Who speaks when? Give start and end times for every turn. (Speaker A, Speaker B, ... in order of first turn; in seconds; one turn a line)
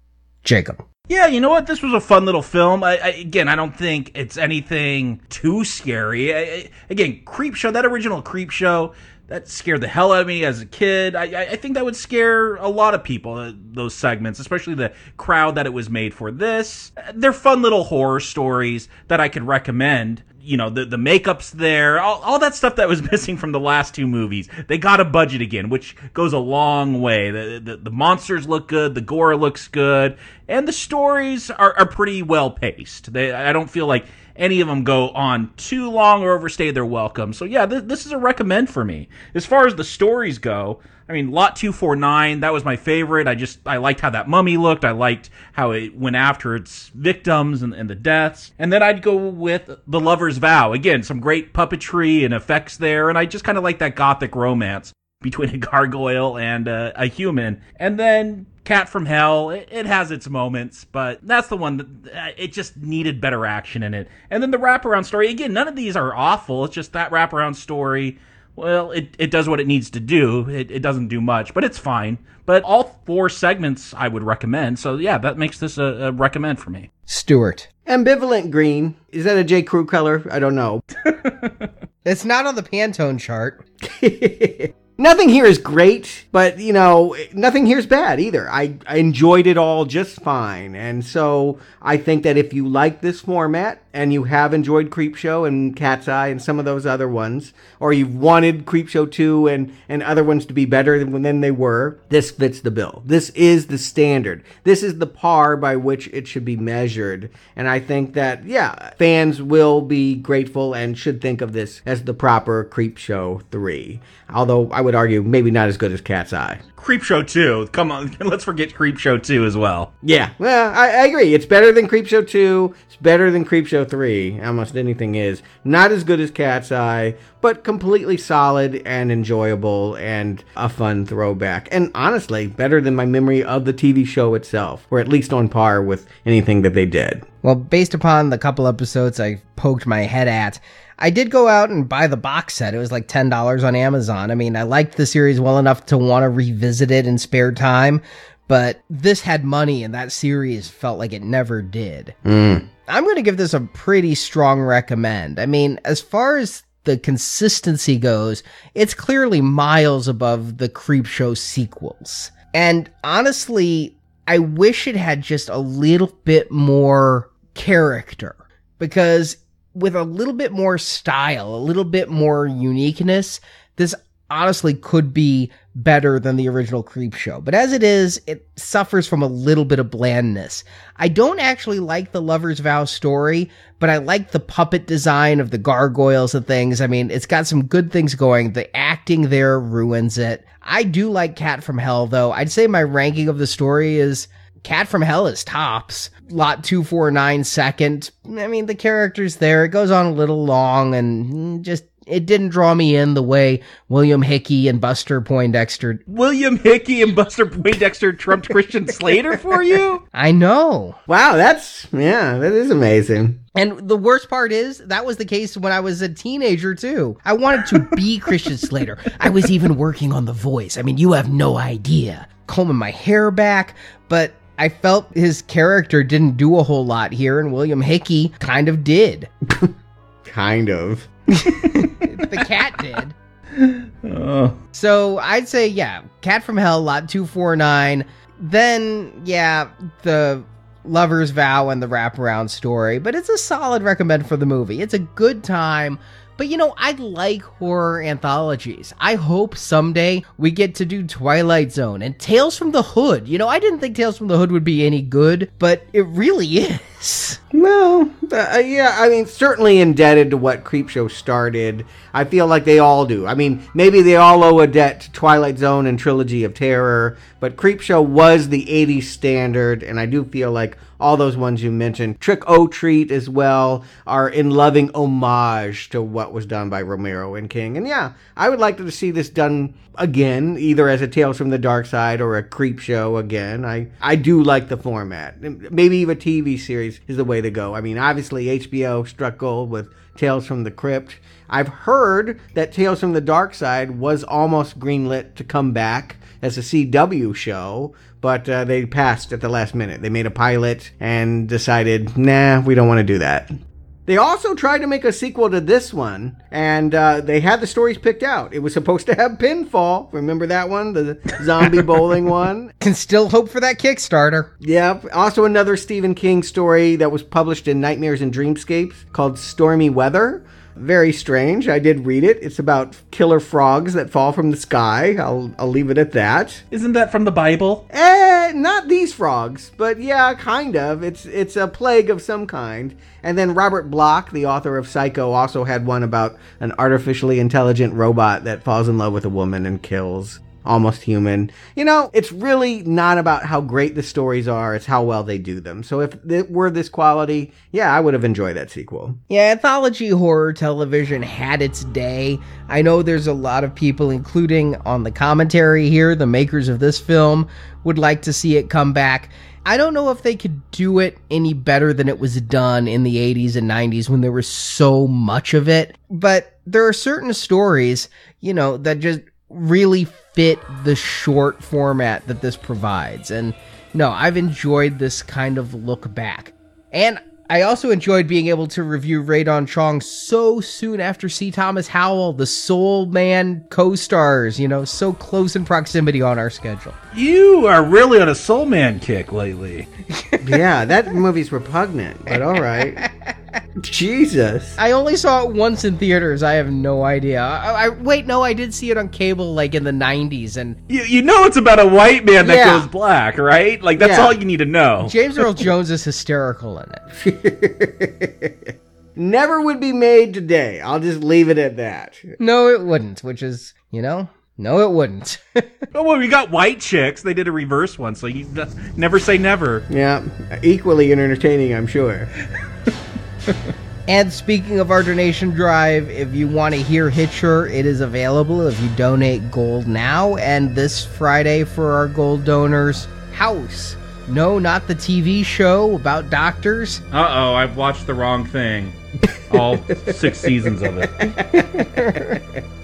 Speaker A: 0.4-0.8
Speaker B: 1.1-76.9
Speaker A: 77.1-77.7
Speaker C: 77.9-80.8
Speaker A: 82.0-83.6
Speaker C: 83.8-116.6
Speaker B: 116.8-119.9
Speaker C: 120.0-137.2
Speaker A: 137.4-152.2
Speaker C: 152.2-152.7
Speaker A: 152.9-206.0
Speaker B: 206.1-210.0
Speaker A: 210.1-211.0
Speaker C: 211.1-213.4
Speaker A: 213.6-229.3
Speaker C: 230.2-231.9
Speaker A: 231.8-233.2
Speaker B: 233.6-234.6
Speaker A: 234.7-257.4
Speaker C: 257.5-303.5
Speaker C: 304.1-312.7
Speaker A: 312.8-314.5
Speaker C: 314.6-326.6
Speaker B: 326.7-327.8
Speaker C: 327.9-349.2
Speaker A: 349.3-386.9
Speaker B: 387.1-389.9
Speaker C: 390.4-393.1
Speaker C: 393.8-394.8
Speaker A: 394.8-400.8
Speaker B: 400.9-405.1
Speaker C: 402.4-402.9
Speaker C: 404.0-404.4
Speaker A: 405.1-407.0
Speaker C: 407.2-412.4
Speaker A: 412.4-415.7
Speaker B: 415.9-419.9
Speaker C: 419.9-422.3
Speaker A: 424.1-437.0
Speaker B: 437.1-439.0
Speaker B: 439.5-441.3
Speaker C: 440.1-440.5
Speaker C: 441.2-442.6
Speaker A: 441.8-442.2